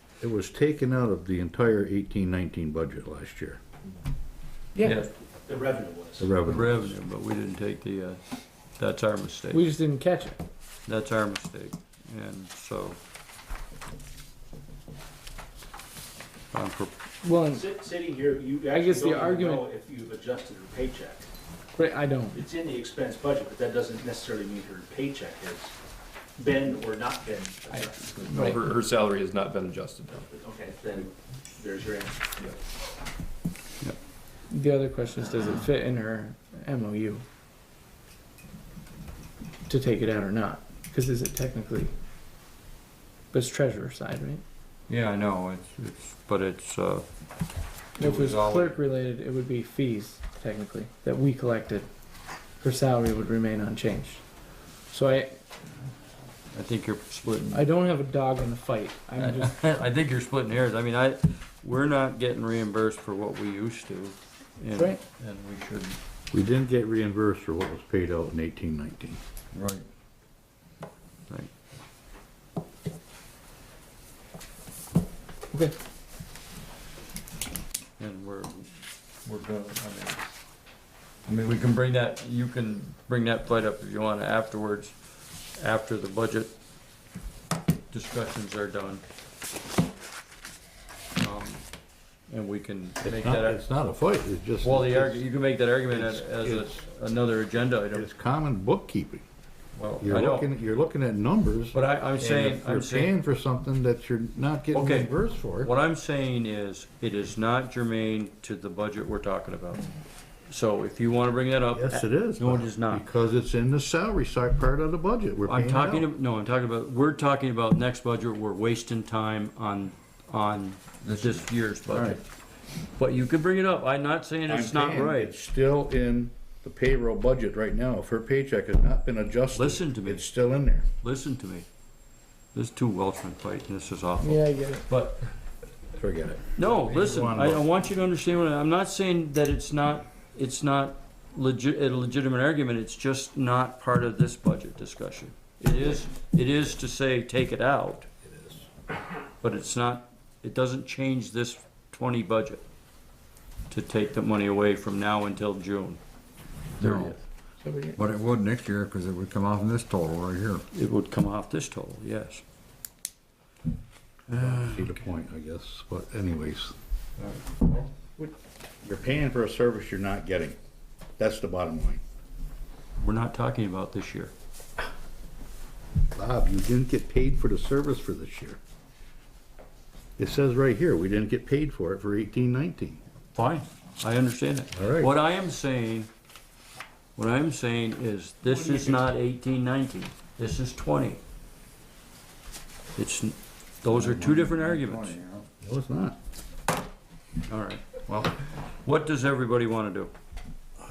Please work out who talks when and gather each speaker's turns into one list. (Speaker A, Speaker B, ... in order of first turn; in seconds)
Speaker A: 0.2-3.6, 6.2-6.9, 66.3-69.2, 93.0-95.3, 95.9-96.8, 97.9-99.2, 100.0-105.7, 111.7-116.1, 121.1-122.2, 124.5-130.9, 135.9-137.6, 164.3-166.7, 168.8-170.6, 171.2-172.0, 176.1-178.6, 180.2-183.0, 184.7-185.1, 195.6-196.2
Speaker B: 4.8-5.0, 9.5-10.4, 17.2-17.7, 18.7-19.6, 21.8-22.4, 27.7-28.6, 34.5-37.2, 39.7-41.9, 43.3-44.4, 48.0-51.9, 52.6-54.3, 54.9-55.4, 57.5-59.6, 64.7-65.0, 134.2-134.8, 157.6-158.0
Speaker C: 4.8-5.1, 6.4-8.2, 8.8-9.7, 10.9-13.0, 16.5-17.0, 44.9-47.1, 48.0-48.8, 56.5-57.7, 59.2-66.0, 78.0-78.7, 79.2-80.3, 81.3-85.0, 85.6-86.5, 87.9-89.0, 91.2-91.6, 92.3-93.6, 94.6-98.1, 99.8-100.5, 101.7-103.1, 104.7-109.8, 110.5-113.0, 115.5-122.3, 123.0-125.4, 129.5-130.3, 131.0-131.7, 132.5-135.3, 136.6-148.1, 149.4-152.6, 153.7-156.0, 156.8-157.2, 160.7-162.4, 167.2-167.8, 173.0-174.3, 183.3-186.1, 187.2-191.2, 193.0-195.2, 197.5-200.1
Speaker D: 5.5-6.3, 17.5-21.3, 22.3-25.7, 26.4-28.4, 30.2-32.5
Speaker E: 28.3-30.2
Speaker F: 69.5-69.8, 156.8-157.2, 157.9-160.6, 188.6-188.9, 193.9-195.5